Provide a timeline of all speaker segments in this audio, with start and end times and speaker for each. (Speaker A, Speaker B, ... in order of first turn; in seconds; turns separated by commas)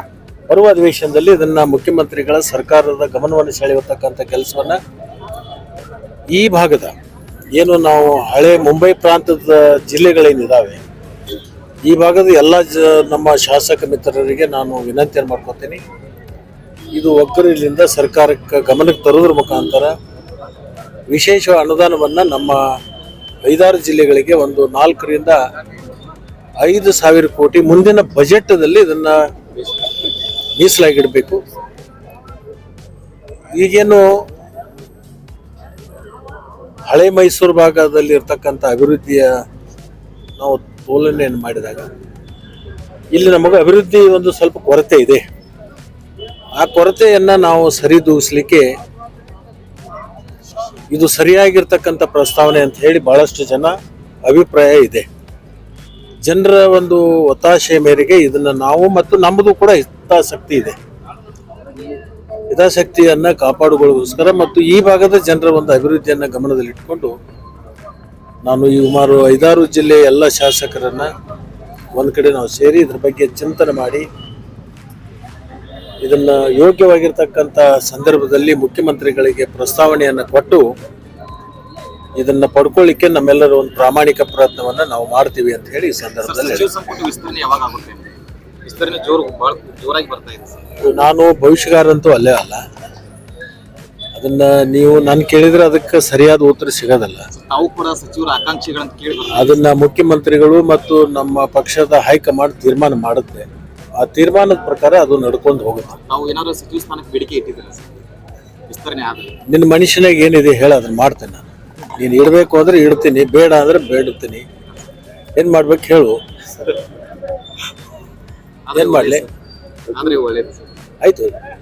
Speaker A: 0.5-4.8, Speaker A: 6.3-6.9, Speaker A: 7.6-10.8, Speaker A: 11.9-15.8, Speaker A: 16.9-19.9, Speaker A: 21.1-22.6, Speaker A: 23.5-25.4, Speaker A: 26.6-29.2, Speaker A: 30.6-31.4, Speaker A: 33.5-34.1, Speaker A: 36.9-39.3, Speaker A: 40.4-41.9, Speaker A: 43.1-45.2, Speaker A: 46.6-48.7, Speaker A: 50.9-53.7, Speaker A: 54.2-55.1, Speaker A: 56.2-60.8, Speaker A: 62.5-67.1, Speaker A: 68.4-71.1, Speaker A: 72.0-74.0, Speaker A: 76.0-80.6, Speaker A: 82.2-86.7, Speaker B: 86.2-88.1, Speaker B: 88.7-90.6, Speaker A: 90.8-92.6, Speaker A: 94.2-97.2, Speaker B: 97.3-99.6, Speaker A: 99.3-103.5, Speaker A: 104.0-106.0, Speaker B: 106.1-107.9, Speaker B: 108.7-109.3, Speaker A: 109.5-114.4, Speaker A: 115.4-116.2, Speaker B: 118.7-119.3, Speaker A: 118.7-119.2, Speaker B: 119.9-120.7, Speaker A: 121.0-121.3